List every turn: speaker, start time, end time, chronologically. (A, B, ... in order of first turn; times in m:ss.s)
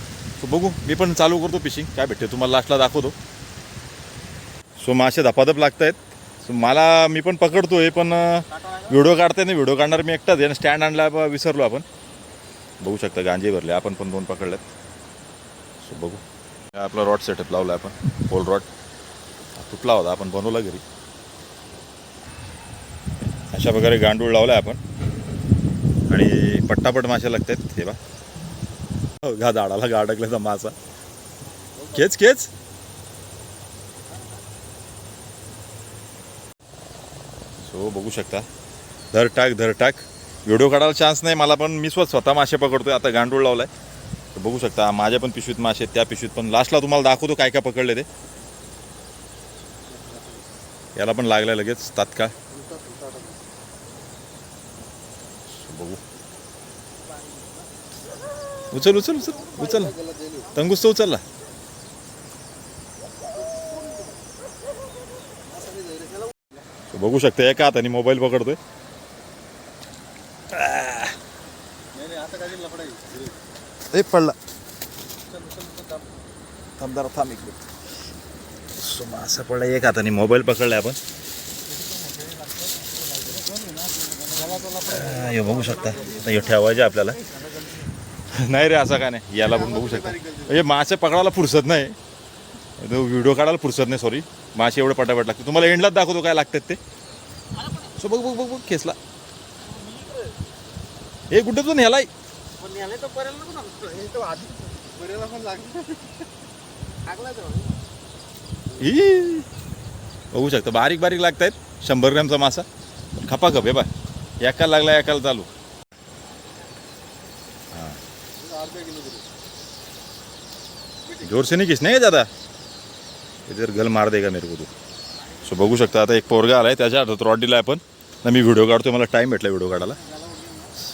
0:00.4-0:03.1 A
0:04.8-0:11.8 A
0:12.8-0:14.7 A
0:15.8-0:18.7 A
0:19.6-0:20.8 A
0:23.5-0:24.8 A
0:26.1-0:28.0 A
0:29.2-0:30.8 A
0:31.9-0:32.5 A
0:37.6-0:38.4 A
0:39.1-0:43.7 A
0:44.3-0:48.1 A
0:49.9-0:50.4 B
0:51.0-0:52.3 A
0:52.5-0:53.4 B
0:55.5-0:56.0 A
0:58.7-1:00.0 A
0:59.4-1:00.6 B
1:00.5-1:01.2 A
1:05.5-1:06.2 B
1:06.9-1:08.6 A
1:10.5-1:11.2 A
1:11.9-1:13.3 B
1:13.9-1:14.4 A
1:15.3-1:16.0 B
1:16.8-1:17.6 A
1:18.8-1:21.0 A
1:24.2-1:26.3 B
1:24.8-1:27.2 A
1:28.3-1:31.9 A
1:29.5-1:30.5 B
1:32.8-1:36.8 A
1:38.0-1:39.0 A
1:41.3-1:42.1 A
1:42.6-1:46.1 B
1:47.0-1:47.8 B
1:48.8-1:49.5 A
1:50.3-1:52.6 A
1:53.2-1:53.9 A
1:54.4-1:55.5 A
1:57.7-1:58.0 A
1:58.4-1:59.2 B
2:01.2-2:02.3 A
2:03.5-2:04.7 A
2:05.4-2:10.0 A
2:10.0-2:10.7 B